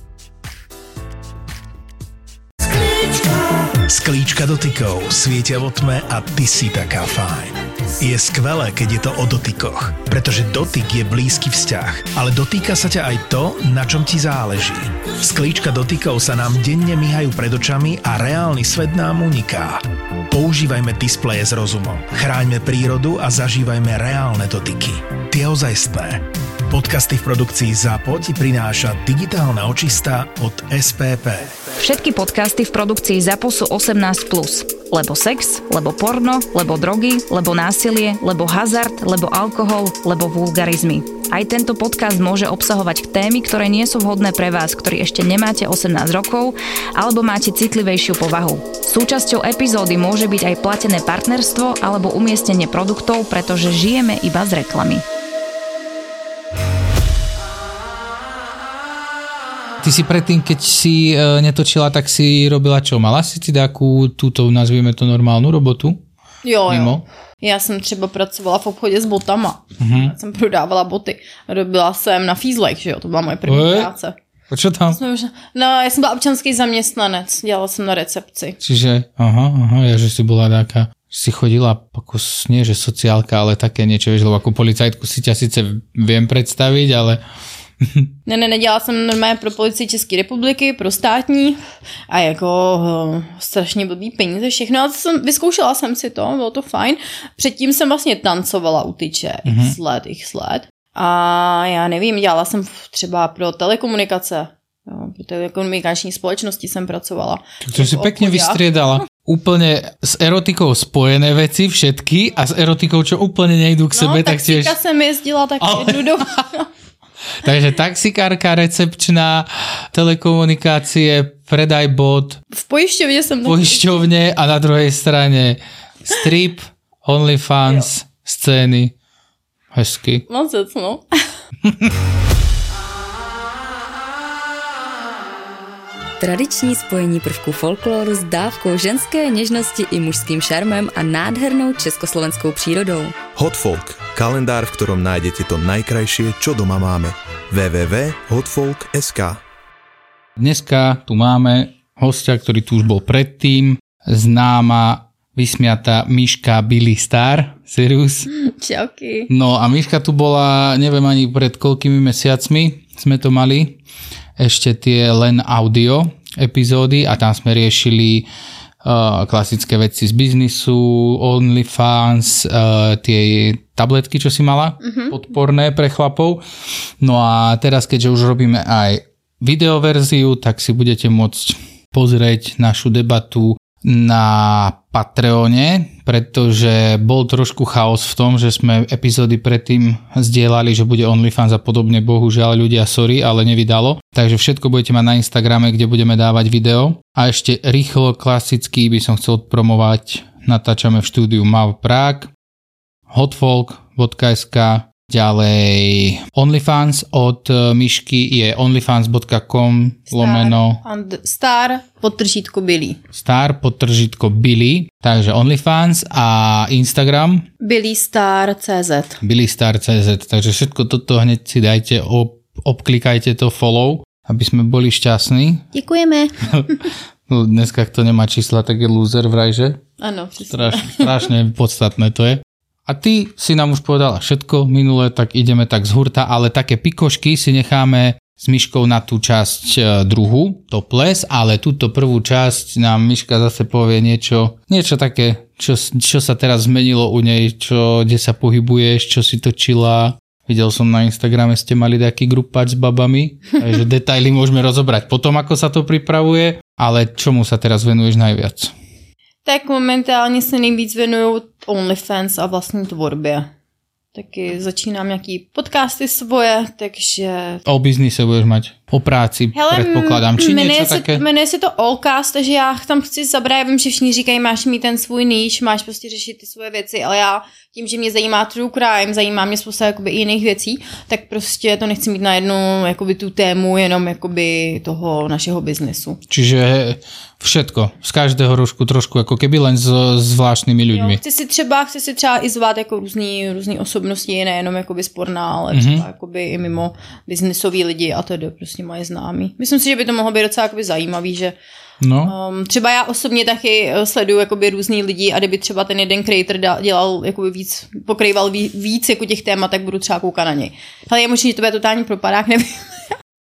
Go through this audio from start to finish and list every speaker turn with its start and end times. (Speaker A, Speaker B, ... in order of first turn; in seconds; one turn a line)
Speaker A: 3.7-31.6
Speaker B: 31.8-55.0
Speaker C: 59.8-66.0
Speaker D: 66.4-74.2
Speaker C: 66.7-67.0
Speaker C: 69.8-70.1
Speaker C: 73.5-73.9
Speaker C: 74.5-75.0
Speaker D: 74.9-78.6
Speaker C: 78.6-87.2
Speaker C: 87.8-88.1
Speaker D: 88.3-91.6
Speaker D: 92.1-108.6
Speaker C: 99.4-99.8
Speaker C: 107.6-114.8
Speaker D: 113.9-116.7
Speaker C: 115.6-116.2
Speaker C: 117.4-122.4
Speaker D: 122.5-124.0
Speaker C: 123.5-128.9
Speaker C: 129.7-130.2
Speaker D: 130.3-131.0
Speaker C: 131.6-131.9
Speaker E: 136.2-143.1
Speaker F: 143.3-149.4
Speaker C: 150.4-158.3
Speaker D: 158.3-159.3
Speaker C: 159.3-163.8
Speaker C: 164.4-168.3
Speaker C: 168.8-176.4
Speaker D: 174.8-175.1
Speaker C: 177.0-202.3
Speaker C: 203.1-210.8
Speaker D: 210.1-213.0
Speaker C: 213.1-217.4
Speaker D: 217.6-219.2
Speaker C: 219.2-225.7
Speaker D: 225.7-226.8
Speaker C: 227.3-229.8
Speaker D: 230.0-231.1
Speaker C: 230.5-258.7
Speaker D: 259.4-263.5
Speaker D: 264.1-267.6
Speaker C: 267.6-271.2
Speaker D: 269.5-286.2
Speaker C: 286.3-291.2
Speaker D: 290.9-301.6
Speaker C: 295.7-296.0
Speaker C: 302.0-302.3
Speaker D: 302.2-313.1